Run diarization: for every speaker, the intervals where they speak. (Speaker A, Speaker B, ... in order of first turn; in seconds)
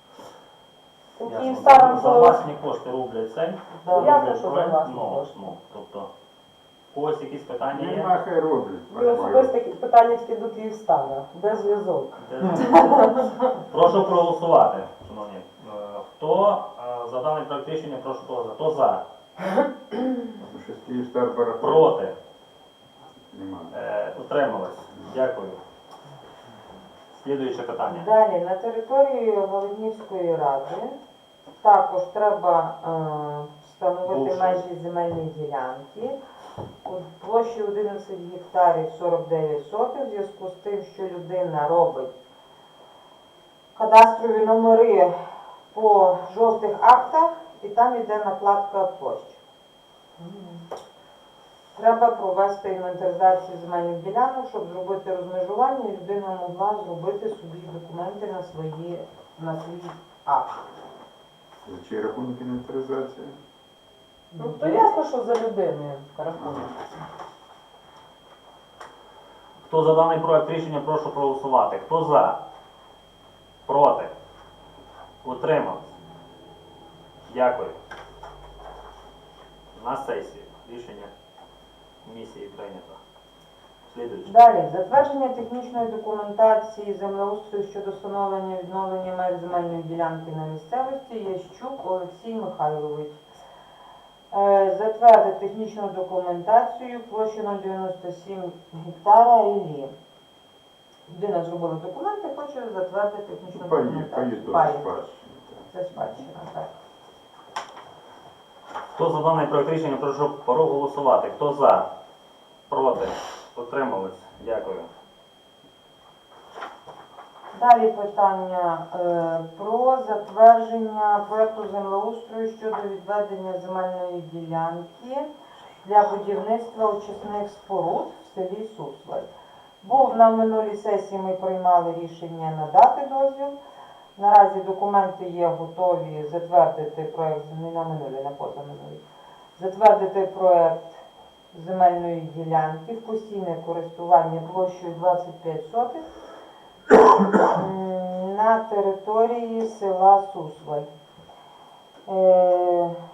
Speaker A: 1.2-2.4, 3.9-5.5, 8.9-12.2, 50.2-50.6, 64.4-66.8
Speaker B: 1.2-6.1, 6.9-8.2, 12.2-19.1, 21.6-22.2, 23.7-25.6, 27.1-28.1, 34.0-34.6, 69.7-72.4, 73.7-74.1, 75.2-76.0, 77.3-77.8, 79.8-81.1, 82.0-83.0, 83.9-84.4, 108.9-111.9, 112.7-114.9
Speaker C: 3.8-4.3, 27.9-31.0, 31.6-36.2, 36.8-42.1, 43.8-45.2, 45.7-49.4, 51.8-60.6, 64.3-65.0, 84.3-93.2, 94.3-99.9, 101.1-105.0, 105.7-106.7, 117.5-125.3, 125.8-129.3, 129.8-133.6, 134.2-139.0, 139.6-146.1, 147.4-150.9, 152.1-153.0
Speaker D: 7.7-9.6, 20.4-21.9, 23.3-23.7, 61.6-63.4, 66.4-66.9, 103.5-106.1